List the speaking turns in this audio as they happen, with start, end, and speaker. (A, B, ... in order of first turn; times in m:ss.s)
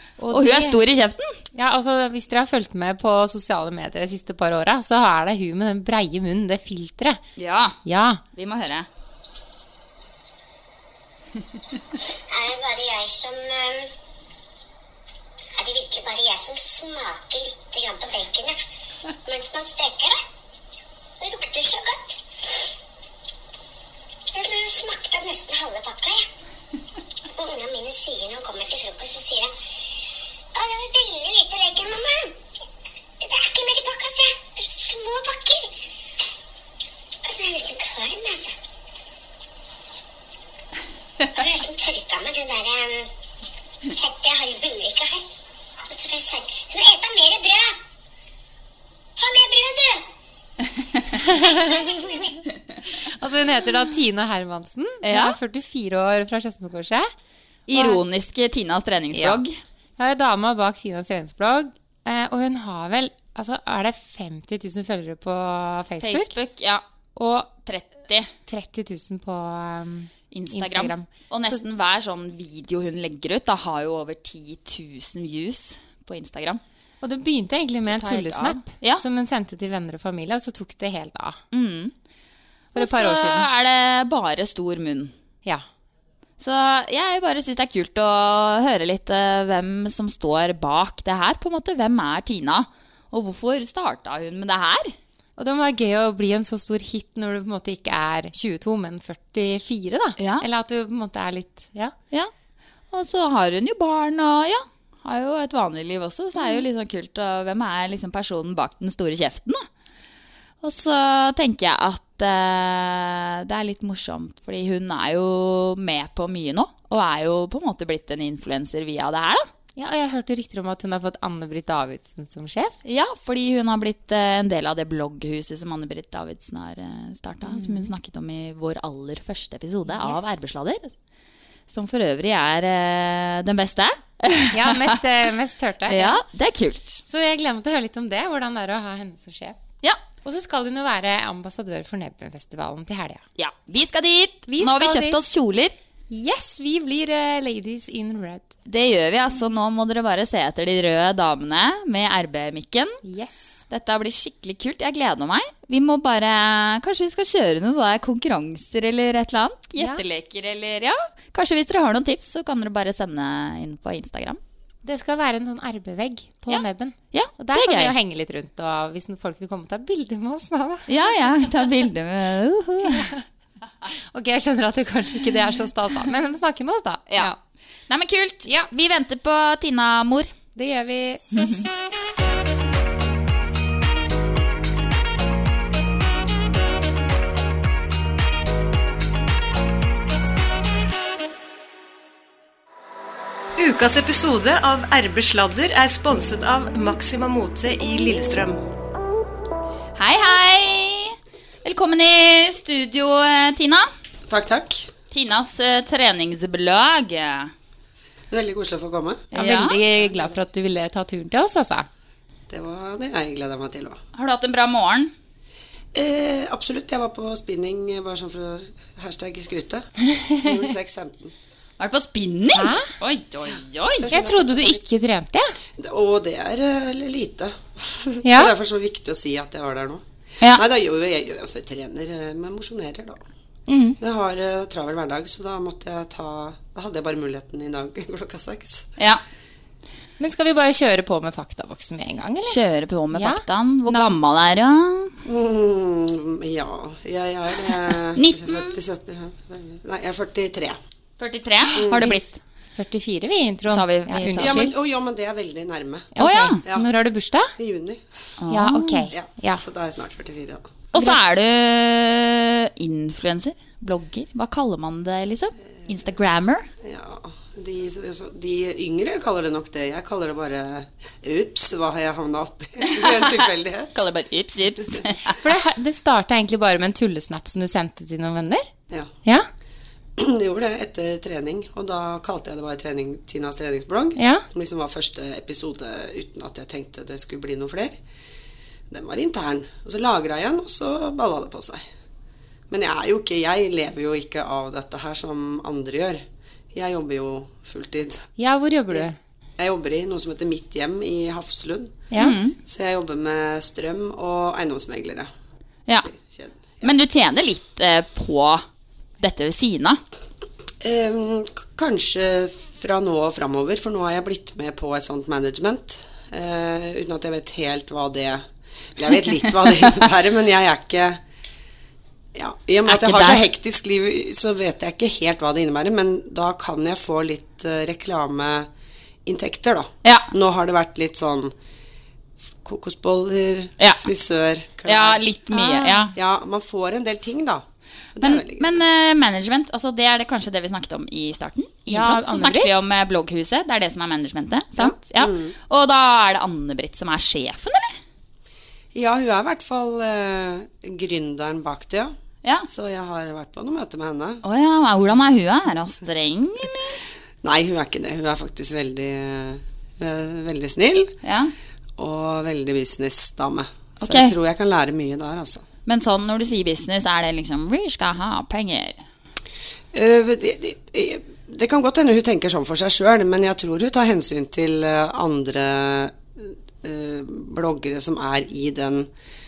0:00.2-0:00.8 A
0:00.3-0:01.4 B
0:01.5-0:07.2 A
0:07.4-0:07.8 B
0:07.8-0:08.2 A
0:08.3-0:08.9 B
0:12.3-0:13.9 C
0:15.6-0:18.6 C
0:19.2-0:20.2 C
0:21.2-0:22.6 C
0:24.3-0:26.2 C
0:27.3-0:29.5 C
0:30.5-0:32.4 C
0:33.2-0:35.7 C
0:37.2-0:38.6 C
0:41.2-0:43.1 C
0:43.8-0:45.2 C
0:45.9-0:47.8 C
0:49.2-0:50.0 C
0:51.1-0:51.8 A
0:51.4-0:52.3 C
0:53.0-0:57.1 A
0:55.0-0:55.4 B
0:57.7-0:59.6 B
0:57.7-0:58.0 A
0:59.1-0:59.4 A
1:00.0-1:06.3 A
1:06.0-1:06.8 B
1:07.2-1:07.5 A
1:07.6-1:08.3 B
1:08.4-1:11.6 A
1:10.3-1:16.6 B
1:17.0-1:21.4 A
1:17.9-1:19.0 B
1:21.5-1:21.9 B
1:22.7-1:23.5 A
1:22.8-1:25.1 B
1:26.4-1:34.9 B
1:35.4-1:41.9 A
1:40.2-1:40.4 B
1:42.9-1:49.7 B
1:50.6-1:59.5 B
1:59.8-2:02.8 A
2:02.8-2:10.9 B
2:07.4-2:07.9 A
2:09.8-2:10.2 A
2:11.7-2:15.0 B
2:14.5-2:16.2 A
2:15.9-2:17.0 B
2:17.1-2:19.6 A
2:20.2-2:23.2 A
2:23.4-2:25.7 B
2:24.5-2:25.2 A
2:26.1-2:28.5 A
2:28.6-2:33.0 B
2:33.0-2:33.6 A
2:33.7-2:44.4 B
2:44.8-2:50.9 A
2:46.5-2:47.9 B
2:50.9-2:53.1 B
2:54.1-2:57.4 A
2:57.9-3:00.3 B
3:00.5-3:01.2 A
3:01.3-3:01.7 B
3:13.6-3:18.6 D
3:20.0-3:23.9 B
3:24.3-3:24.9 E
3:25.1-3:27.5 B
3:28.3-3:29.3 E
3:29.3-3:29.8 B
3:29.3-3:31.9 A
3:32.5-3:34.0 E
3:34.1-3:35.1 B
3:35.9-3:39.9 E
3:40.1-3:40.5 A
3:40.4-3:41.3 E
3:41.8-3:44.1 B
3:42.5-3:42.9 A
3:44.0-3:44.8 E
3:44.1-3:45.5 A
3:45.8-3:53.2 E
3:48.2-3:48.5 A
3:53.7-3:54.0 A
3:54.0-3:58.9 E
4:00.2-4:02.6 A
4:02.4-4:05.1 B
4:03.1-4:04.1 A
4:05.2-4:10.8 E
4:08.2-4:08.8 B
4:11.2-4:12.3 B
4:11.7-4:14.7 A
4:11.8-4:12.1 E
4:13.7-4:14.6 B
4:14.4-4:16.1 E
4:16.1-4:17.5 A
4:16.2-4:16.6 B
4:17.6-4:18.0 E
4:18.4-4:19.1 B
4:18.5-4:19.6 A
4:19.1-4:20.7 E
4:20.9-4:26.7 B
4:26.8-4:33.9 E
4:33.9-4:35.4 B
4:35.4-4:38.7 A
4:40.2-4:48.0 E
4:44.2-4:44.4 A
4:48.9-4:51.8 E
4:52.7-4:56.2 E
4:56.7-4:58.3 E
4:58.4-4:59.2 A
4:59.6-5:02.0 E
5:02.1-5:02.6 B
5:02.6-5:05.3 E
5:06.1-5:06.9 E
5:06.8-5:08.6 B
5:09.2-5:10.0 B
5:10.8-5:18.4 E
5:19.0-5:21.2 E
5:22.3-5:28.7 E
5:22.9-5:23.4 B
5:29.2-5:31.5 E
5:32.6-5:35.2 E
5:33.8-5:34.0 B
5:34.8-5:36.1 B
5:35.5-5:36.1 A
5:36.1-5:37.6 E
5:38.1-5:38.8 E
5:38.2-5:48.0 B
5:41.9-5:42.8 A
5:44.8-5:45.5 E
5:48.9-5:52.1 E
5:52.7-5:54.4 E
5:54.4-5:57.0 B
5:57.4-6:01.1 E
6:01.2-6:01.5 B
6:02.0-6:05.6 E
6:04.0-6:04.3 B
6:05.9-6:09.0 B
6:09.9-6:19.1 E